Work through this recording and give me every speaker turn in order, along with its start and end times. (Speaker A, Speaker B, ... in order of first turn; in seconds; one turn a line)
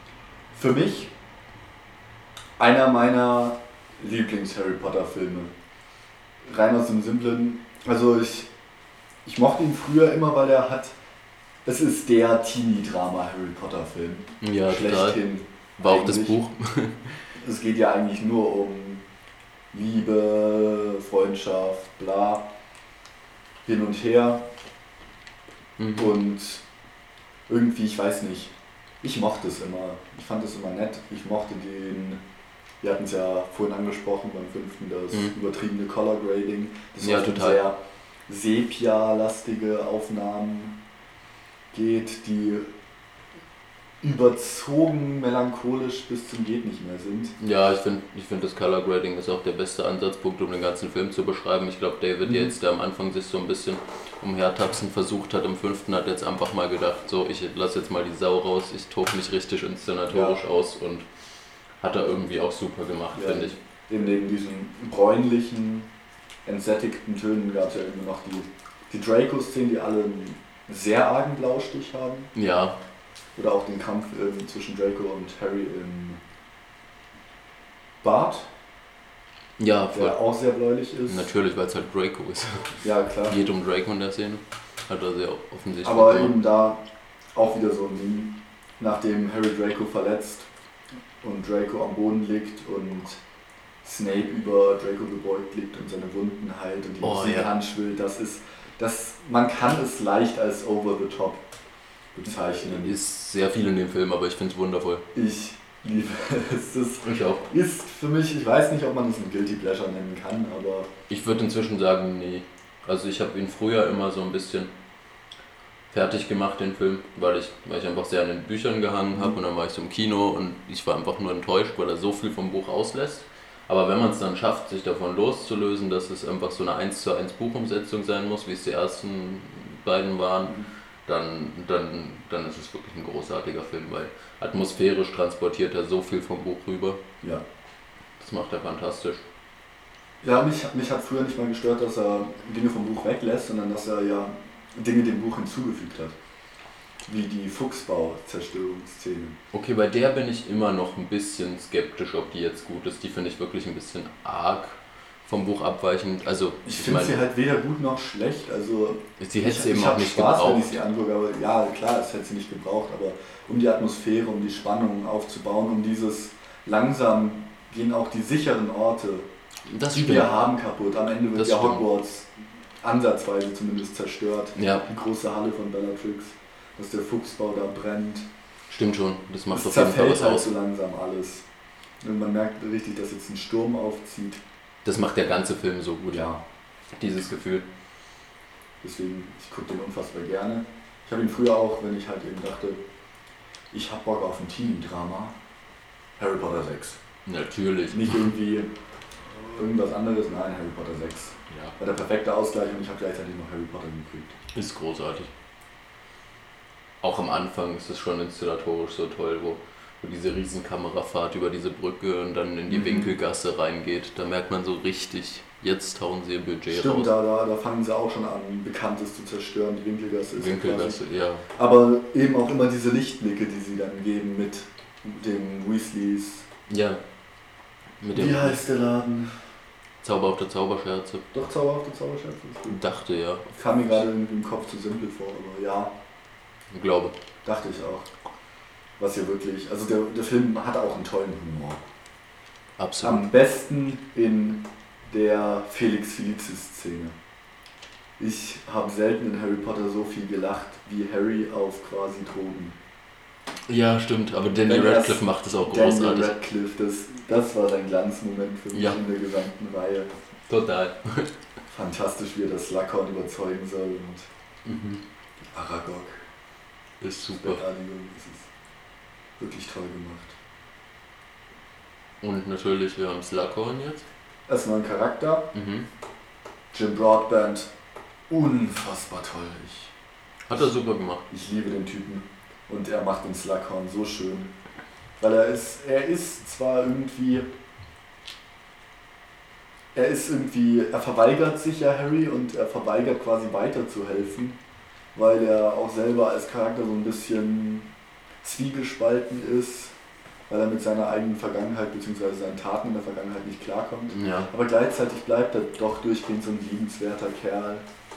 Speaker A: 0.5-1.1
Speaker A: 2.6-5.5
Speaker A: 6.4-8.5
Speaker A: 9.2-10.9
Speaker A: 11.7-16.4
Speaker B: 14.4-15.2
Speaker B: 15.8-17.1
Speaker A: 17.4-19.1
Speaker A: 19.7-22.4
Speaker A: 23.6-24.4
Speaker B: 25.8-26.2
Speaker A: 26.0-26.6
Speaker A: 27.5-32.2
Speaker A: 32.8-40.8
Speaker B: 37.0-37.6
Speaker A: 41.7-42.7
Speaker A: 44.0-47.4
Speaker B: 47.4-61.1
Speaker A: 60.1-60.4
Speaker B: 61.8-63.6
Speaker A: 63.1-65.9
Speaker A: 66.5-72.3
Speaker B: 72.3-72.8
Speaker A: 73.4-76.2
Speaker A: 78.0-78.5
Speaker B: 79.6-80.2
Speaker A: 79.9-81.3
Speaker B: 81.1-86.4
Speaker A: 82.8-83.4
Speaker A: 85.8-86.8
Speaker A: 87.3-90.5
Speaker A: 91.2-93.2
Speaker A: 93.8-101.4
Speaker B: 97.0-97.6
Speaker A: 102.2-103.0
Speaker B: 102.5-105.0
Speaker A: 105.1-110.9
Speaker B: 107.0-107.5
Speaker B: 111.1-114.7
Speaker B: 115.9-137.0
Speaker B: 138.2-139.2
Speaker A: 140.2-146.2
Speaker A: 147.1-149.4
Speaker B: 149.5-157.2
Speaker A: 156.6-169.3
Speaker B: 159.2-160.8
Speaker B: 169.7-170.4
Speaker A: 169.9-178.3
Speaker B: 171.3-171.8
Speaker B: 174.6-174.9
Speaker B: 178.7-180.5
Speaker A: 179.5-181.4
Speaker A: 182.0-184.4
Speaker B: 184.8-186.3
Speaker A: 186.1-186.4
Speaker B: 187.0-187.7
Speaker A: 188.8-192.8
Speaker A: 193.7-195.3
Speaker A: 196.2-197.0
Speaker B: 197.3-198.3
Speaker A: 197.9-198.7
Speaker A: 199.3-204.4
Speaker B: 204.5-205.3
Speaker B: 207.0-217.1
Speaker A: 212.7-213.1
Speaker A: 216.7-221.0
Speaker B: 220.4-221.5
Speaker A: 221.5-226.5
Speaker B: 226.7-227.0
Speaker B: 228.0-228.6
Speaker A: 228.1-229.4
Speaker B: 230.0-231.2
Speaker A: 231.3-232.8
Speaker B: 232.7-234.0
Speaker A: 233.6-235.9
Speaker B: 236.7-237.2
Speaker A: 237.4-238.1
Speaker A: 239.0-241.8
Speaker B: 242.8-243.3
Speaker A: 243.0-247.2
Speaker A: 248.2-252.8
Speaker B: 253.7-256.4
Speaker A: 254.7-260.1
Speaker B: 258.7-259.0
Speaker B: 260.5-261.3
Speaker A: 261.7-264.3
Speaker B: 264.6-265.0
Speaker A: 265.5-266.2
Speaker B: 267.0-267.6
Speaker A: 267.4-268.5
Speaker A: 269.4-270.4
Speaker B: 272.2-274.1
Speaker A: 274.5-275.5
Speaker B: 275.5-275.9
Speaker A: 276.7-277.7
Speaker A: 278.3-279.9
Speaker B: 280.5-281.3
Speaker A: 281.3-284.5
Speaker A: 285.2-287.5
Speaker A: 289.9-294.6
Speaker A: 295.1-297.9
Speaker A: 298.4-299.9
Speaker A: 300.5-307.8
Speaker B: 304.1-304.5